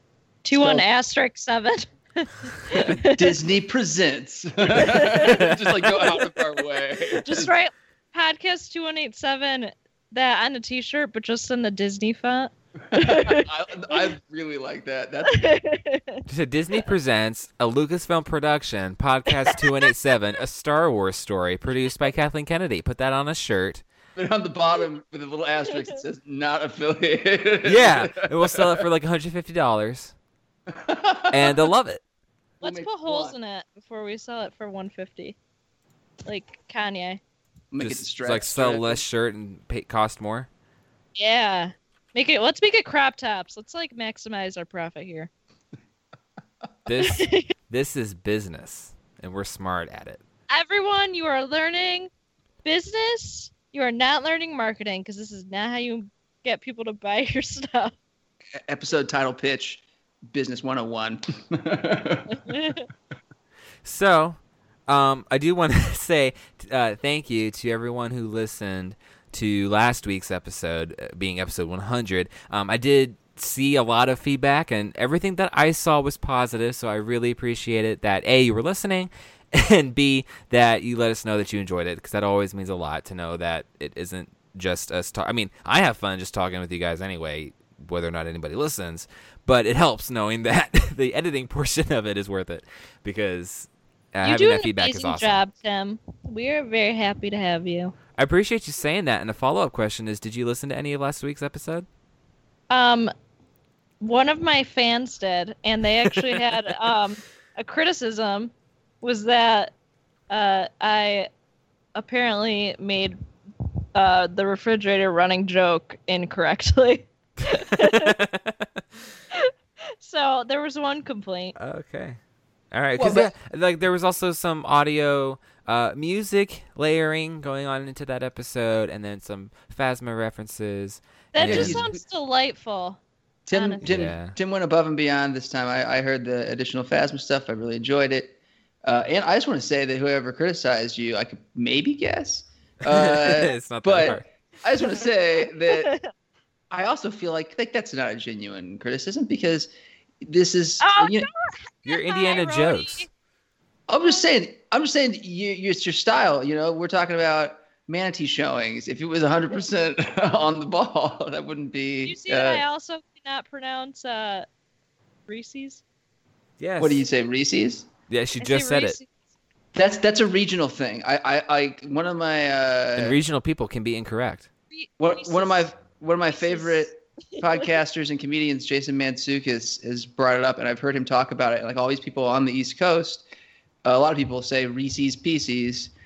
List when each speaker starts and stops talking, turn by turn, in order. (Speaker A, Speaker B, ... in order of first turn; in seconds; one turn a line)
Speaker A: 0.4-3.3
Speaker B: 0.5-0.9
Speaker B: 2.7-7.5
Speaker A: 4.8-6.2
Speaker A: 7.2-14.0
Speaker B: 12.9-15.5
Speaker A: 15.3-16.2
Speaker C: 16.3-23.8
Speaker B: 24.2-28.1
Speaker C: 27.6-30.1
Speaker B: 30.7-31.6
Speaker C: 31.3-32.0
Speaker B: 32.6-33.3
Speaker A: 32.6-35.4
Speaker A: 36.3-37.2
Speaker B: 37.7-39.0
Speaker C: 37.8-40.5
Speaker A: 41.2-45.3
Speaker C: 46.9-50.2
Speaker A: 47.0-47.5
Speaker A: 50.5-52.1
Speaker A: 52.6-57.9
Speaker B: 58.7-62.6
Speaker A: 62.5-62.8
Speaker C: 63.8-95.4
Speaker A: 94.2-98.0
Speaker C: 98.2-101.9
Speaker A: 102.7-103.1
Speaker A: 104.0-109.7
Speaker A: 110.3-111.3
Speaker A: 112.0-113.2
Speaker A: 114.0-118.2
Speaker C: 117.8-118.5
Speaker A: 119.3-121.5
Speaker C: 121.6-122.2
Speaker C: 122.7-131.8
Speaker B: 123.0-123.3
Speaker A: 131.3-133.0
Speaker B: 131.4-132.0
Speaker B: 133.5-145.9
Speaker A: 133.5-133.9
Speaker C: 133.8-134.3
Speaker C: 142.9-144.2
Speaker A: 145.7-146.1
Speaker B: 146.7-149.7
Speaker B: 150.2-151.3
Speaker A: 150.8-153.1
Speaker C: 151.9-153.1
Speaker B: 153.9-162.6
Speaker A: 162.0-164.5
Speaker A: 165.3-165.8
Speaker C: 166.6-167.0
Speaker B: 166.8-167.9
Speaker C: 168.1-169.0
Speaker A: 168.4-169.1
Speaker B: 169.7-173.2
Speaker C: 173.0-174.5
Speaker A: 174.7-175.7
Speaker B: 175.0-183.2
Speaker A: 176.3-177.6
Speaker B: 183.8-185.9